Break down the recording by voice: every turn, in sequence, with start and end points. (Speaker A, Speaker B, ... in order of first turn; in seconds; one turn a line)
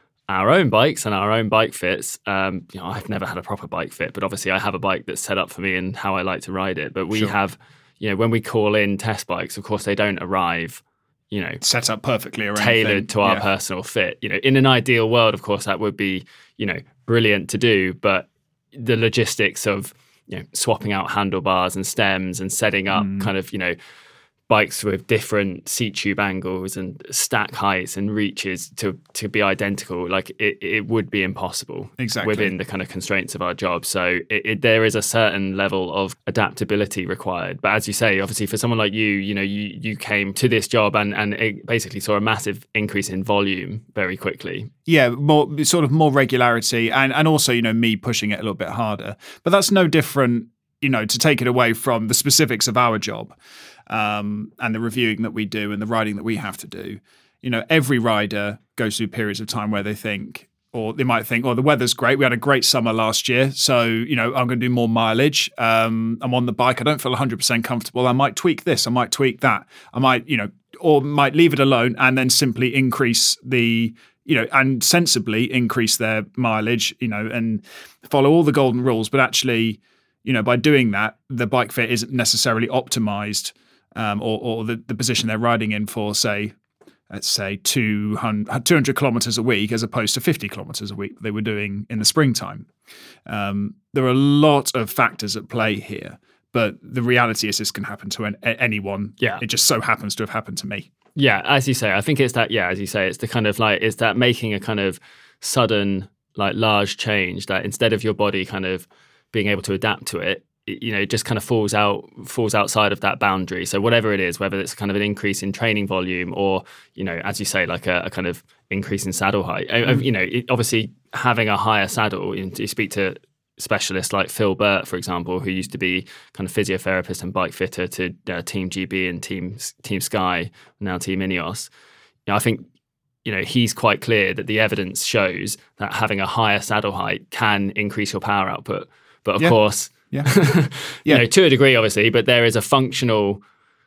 Speaker A: 0.3-11.6
Speaker B: 11.6-13.4
Speaker A: 12.6-23.8
Speaker B: 22.9-23.3
Speaker A: 24.5-44.7
Speaker B: 32.0-32.5
Speaker B: 44.9-53.4
Speaker B: 53.9-86.5
Speaker B: 87.1-92.7
Speaker B: 93.3-100.9
Speaker A: 101.2-131.7
Speaker A: 132.3-132.7
Speaker A: 133.2-143.4